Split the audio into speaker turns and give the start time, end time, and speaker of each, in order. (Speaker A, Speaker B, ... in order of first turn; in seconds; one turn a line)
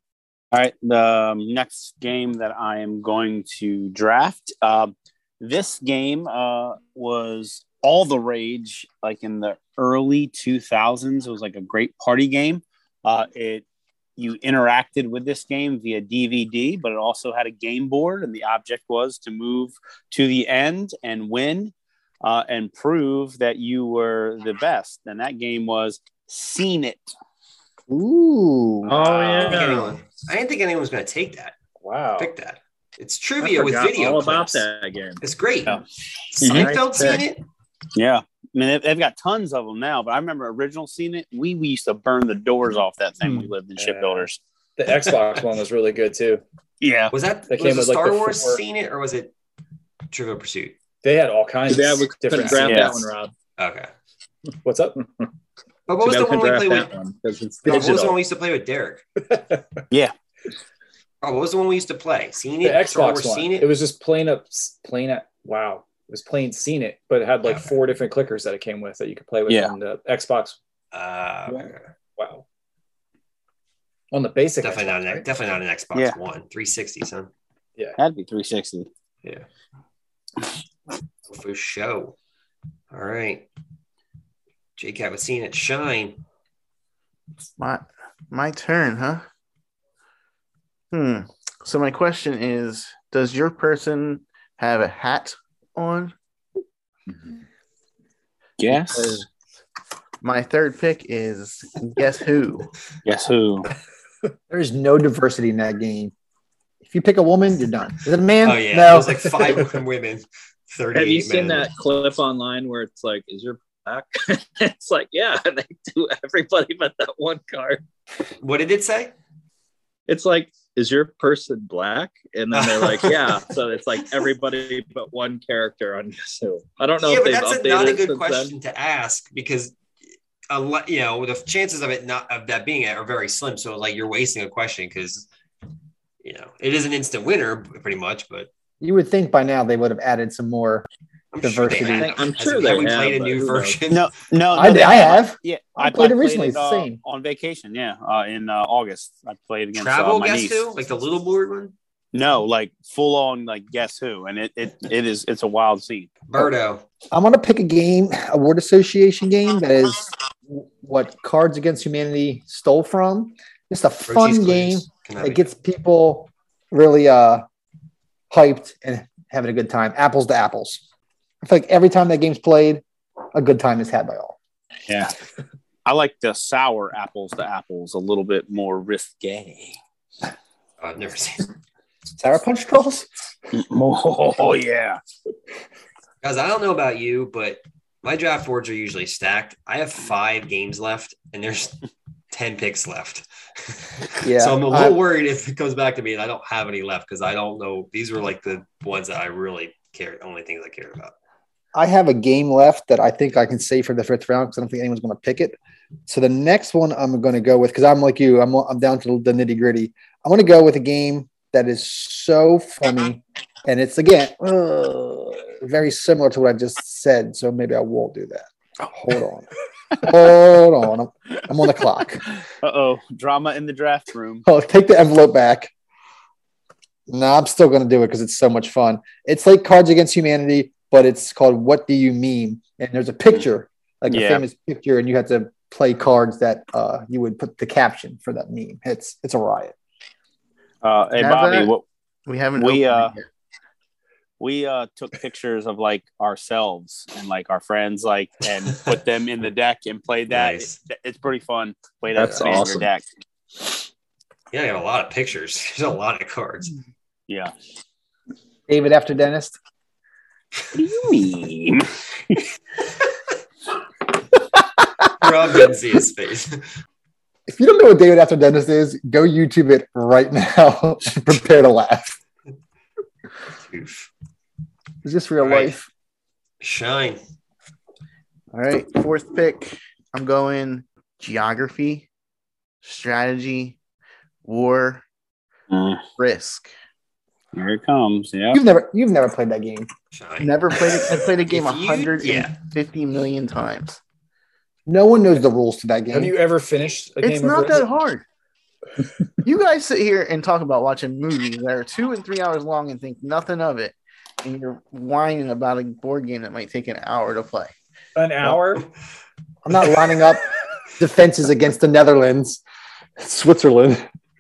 Speaker A: 0.5-13.7
Speaker A: 14.2-27.1
Speaker B: 27.9-28.9
Speaker C: 28.9-29.9
Speaker D: 29.0-29.6
Speaker E: 29.1-31.6
Speaker D: 31.8-32.3
Speaker E: 32.2-34.7
Speaker C: 33.4-35.2
Speaker E: 35.2-37.5
Speaker A: 36.4-36.8
Speaker C: 36.5-37.2
Speaker A: 37.9-44.4
Speaker D: 43.8-46.4
Speaker A: 46.8-47.1
Speaker E: 47.1-49.3
Speaker D: 47.5-48.6
Speaker E: 50.1-50.8
Speaker D: 51.0-53.1
Speaker C: 51.7-53.3
Speaker A: 52.6-53.0
Speaker E: 53.6-53.9
Speaker D: 54.6-55.0
Speaker E: 55.9-56.9
Speaker C: 56.0-58.2
Speaker E: 57.6-59.0
Speaker D: 59.3-59.6
Speaker E: 61.2-63.7
Speaker D: 62.6-70.6
Speaker E: 67.5-67.7
Speaker A: 69.5-69.7
Speaker E: 70.9-71.9
Speaker D: 71.5-72.5
Speaker D: 74.1-75.3
Speaker E: 74.6-77.3
Speaker A: 78.0-78.9
Speaker E: 81.3-82.2
Speaker E: 82.9-83.5
Speaker E: 84.8-86.2
Speaker F: 87.6-89.2
Speaker F: 90.9-96.1
Speaker A: 98.6-99.2
Speaker F: 100.2-102.7
Speaker A: 103.0-103.7
Speaker B: 104.5-106.1
Speaker B: 106.8-109.6
Speaker E: 108.4-111.7
Speaker C: 110.9-117.8
Speaker E: 118.4-119.1
Speaker C: 120.1-128.5
Speaker E: 122.5-123.4
Speaker E: 127.0-129.8
Speaker E: 130.5-135.3
Speaker E: 136.2-138.5
Speaker B: 138.8-140.9
Speaker E: 141.3-144.1
Speaker B: 141.4-142.2
Speaker C: 141.8-143.8
Speaker A: 143.9-150.6
Speaker B: 144.5-147.0
Speaker E: 149.8-151.7
Speaker A: 152.1-156.1
Speaker E: 156.3-156.8
Speaker B: 157.1-167.4
Speaker E: 164.1-165.5
Speaker B: 168.3-170.8
Speaker B: 171.4-172.8
Speaker B: 173.3-174.4
Speaker A: 174.9-175.1
Speaker A: 175.8-179.8
Speaker E: 180.8-181.5
Speaker B: 182.2-183.1
Speaker A: 183.5-185.0
Speaker E: 186.2-201.1
Speaker B: 194.2-195.0
Speaker B: 201.7-205.6
Speaker B: 206.1-222.2
Speaker A: 222.6-224.5
Speaker B: 224.5-225.7
Speaker B: 227.1-239.8
Speaker A: 234.1-234.4
Speaker A: 240.8-241.8
Speaker F: 241.2-241.7
Speaker F: 242.3-243.2
Speaker A: 242.6-243.1
Speaker A: 244.4-253.1
Speaker E: 250.3-250.8
Speaker C: 252.2-252.9
Speaker E: 254.5-256.8
Speaker A: 257.3-257.5
Speaker B: 258.7-259.6
Speaker A: 260.8-262.4
Speaker E: 265.1-266.7
Speaker B: 267.5-272.2
Speaker E: 273.7-274.1
Speaker B: 275.0-275.9
Speaker E: 275.4-275.8
Speaker E: 276.6-277.2
Speaker F: 278.5-282.1
Speaker F: 282.8-283.8
Speaker F: 284.4-285.0
Speaker A: 285.7-286.0
Speaker F: 286.2-286.7
Speaker A: 287.5-288.6
Speaker B: 288.5-289.9
Speaker E: 290.1-292.6
Speaker F: 290.4-294.0
Speaker B: 294.9-296.3
Speaker D: 296.1-297.9
Speaker F: 297.2-298.2
Speaker F: 299.4-307.7
Speaker D: 308.2-308.9
Speaker B: 309.6-310.5
Speaker B: 311.0-312.6
Speaker B: 313.2-314.1